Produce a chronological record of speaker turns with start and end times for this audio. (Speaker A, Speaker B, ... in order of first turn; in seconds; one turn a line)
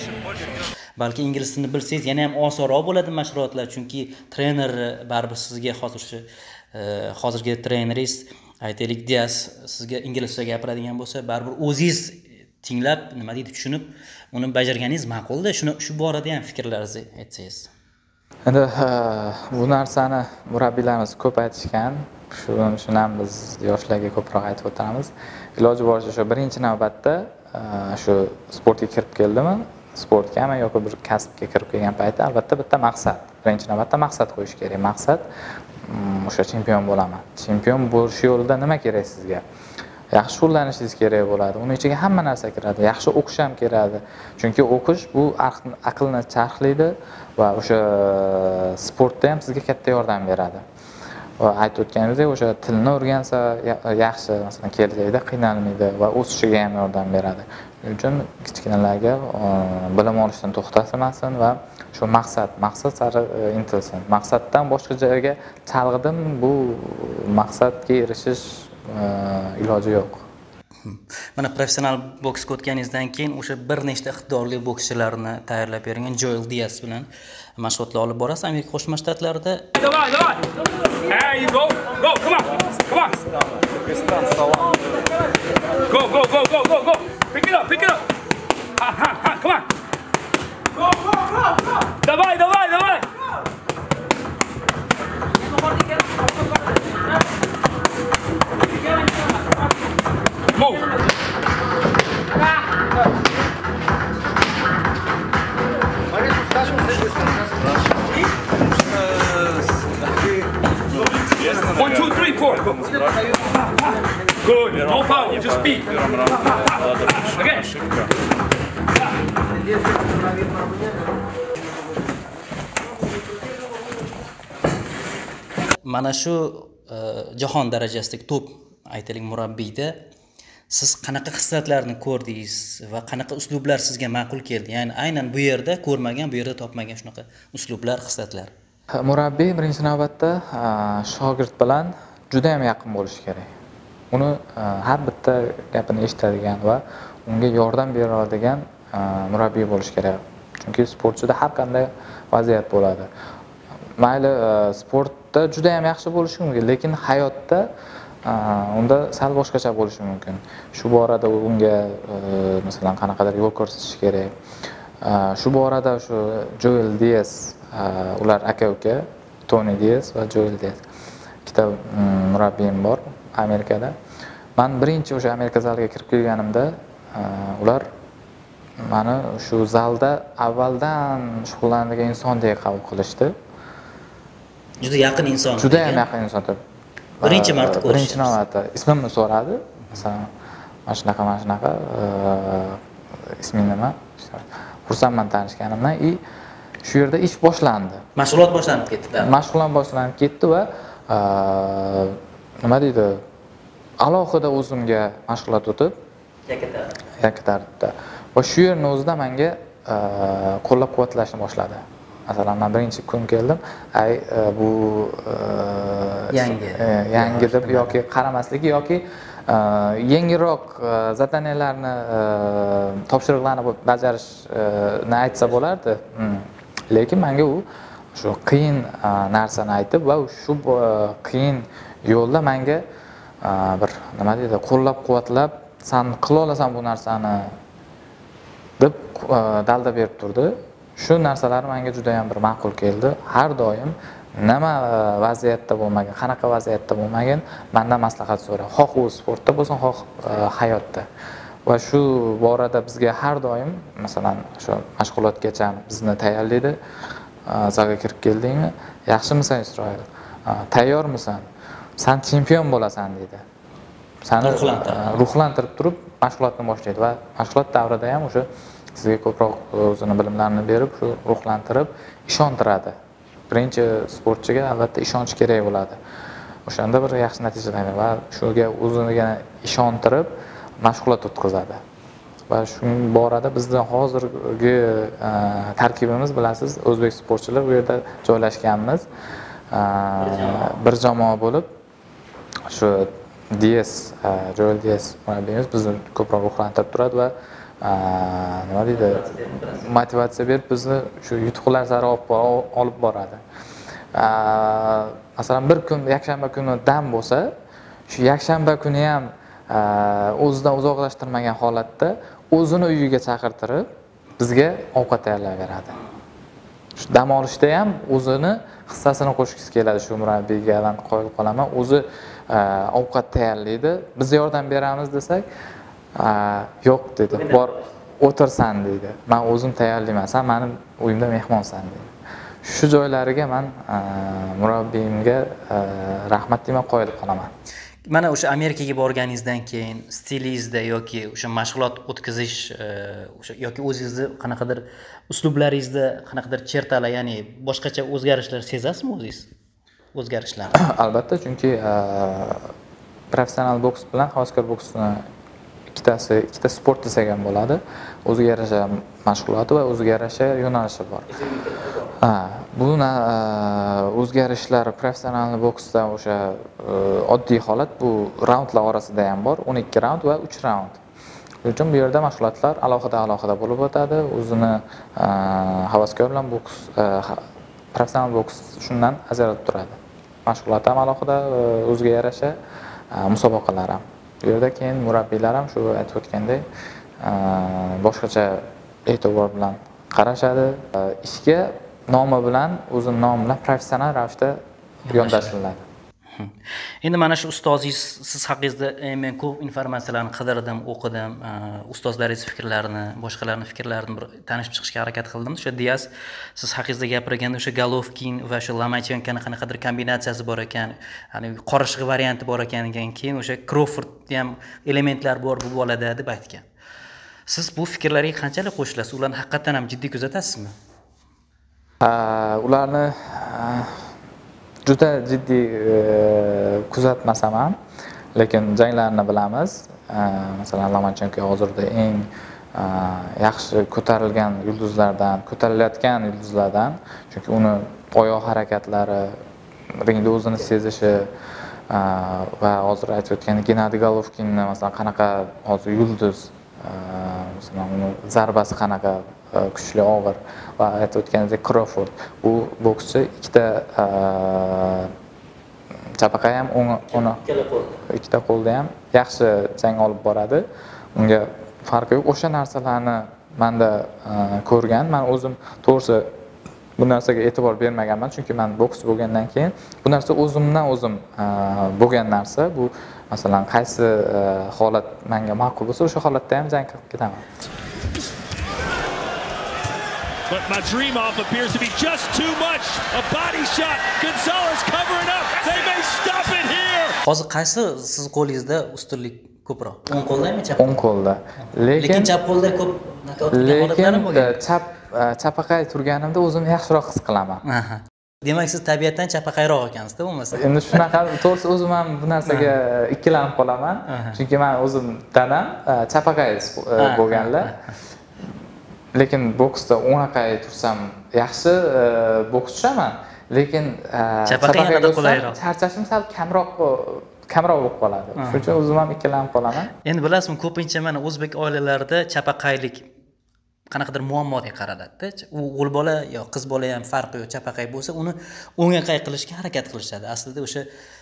Speaker A: 1.0-17.7
Speaker B: 18.4-35.2
Speaker B: 35.8-39.4
Speaker B: 40.1-50.6
Speaker B: 51.4-70.2
Speaker A: 70.8-79.7
Speaker C: 79.8-80.5
Speaker C: 81.0-84.7
Speaker C: 85.8-88.0
Speaker C: 88.8-89.7
Speaker C: 91.9-93.1
Speaker C: 100.5-101.0
Speaker C: 111.7-113.0
Speaker C: 113.8-117.7
Speaker A: 125.8-130.0
Speaker A: 130.7-138.5
Speaker B: 139.0-143.5
Speaker B: 144.1-153.1
Speaker B: 154.0-157.7
Speaker B: 158.2-164.3
Speaker B: 165.0-170.8
Speaker B: 171.4-173.9
Speaker B: 174.6-177.9
Speaker B: 178.8-183.3
Speaker A: 184.8-186.1
Speaker B: 185.5-186.6
Speaker B: 187.2-190.3
Speaker A: 187.2-188.4
Speaker B: 190.9-196.2
Speaker B: 196.8-198.0
Speaker A: 198.2-199.3
Speaker B: 199.2-203.2
Speaker B: 204.0-206.0
Speaker A: 206.5-206.9
Speaker B: 207.2-227.6
Speaker A: 216.3-218.0
Speaker B: 228.1-232.8
Speaker B: 233.4-237.6
Speaker B: 238.8-251.1
Speaker B: 251.7-256.8
Speaker B: 257.4-261.4
Speaker B: 262.0-263.4
Speaker B: 264.2-272.9
Speaker A: 264.4-265.2
Speaker B: 273.5-276.0
Speaker B: 276.6-281.8
Speaker B: 282.5-289.1
Speaker B: 289.7-291.7
Speaker A: 290.1-290.8
Speaker B: 292.7-299.2
Speaker A: 298.9-299.9
Speaker B: 299.8-303.4
Speaker B: 304.1-307.5
Speaker B: 308.1-313.9
Speaker B: 314.4-316.0
Speaker B: 317.0-325.4
Speaker B: 326.1-332.1
Speaker A: 327.3-327.9
Speaker B: 332.6-337.5
Speaker A: 338.1-349.5
Speaker A: 350.1-350.8
Speaker B: 350.8-352.7
Speaker B: 353.3-355.2
Speaker B: 355.9-361.3
Speaker A: 361.3-362.2
Speaker B: 362.2-371.0
Speaker B: 371.6-382.6
Speaker B: 383.1-386.6
Speaker B: 387.2-395.8
Speaker A: 395.1-395.5
Speaker A: 396.3-416.6
Speaker A: 417.5-420.7
Speaker B: 422.0-424.0
Speaker B: 424.8-427.8
Speaker B: 428.3-439.4
Speaker B: 440.0-441.3
Speaker B: 441.9-455.1
Speaker B: 456.1-457.4
Speaker A: 457.1-458.0
Speaker B: 458.1-466.3
Speaker B: 467.0-477.4
Speaker D: 480.5-487.2
Speaker A: 487.2-491.0
Speaker B: 490.8-492.3
Speaker A: 492.0-494.6
Speaker B: 493.5-497.6
Speaker A: 497.6-501.1
Speaker B: 500.5-507.8
Speaker A: 502.4-502.8
Speaker A: 504.1-504.4
Speaker A: 507.0-508.0
Speaker B: 509.1-519.9
Speaker A: 514.5-515.6
Speaker A: 518.4-518.8
Speaker A: 520.0-523.1
Speaker A: 523.9-530.9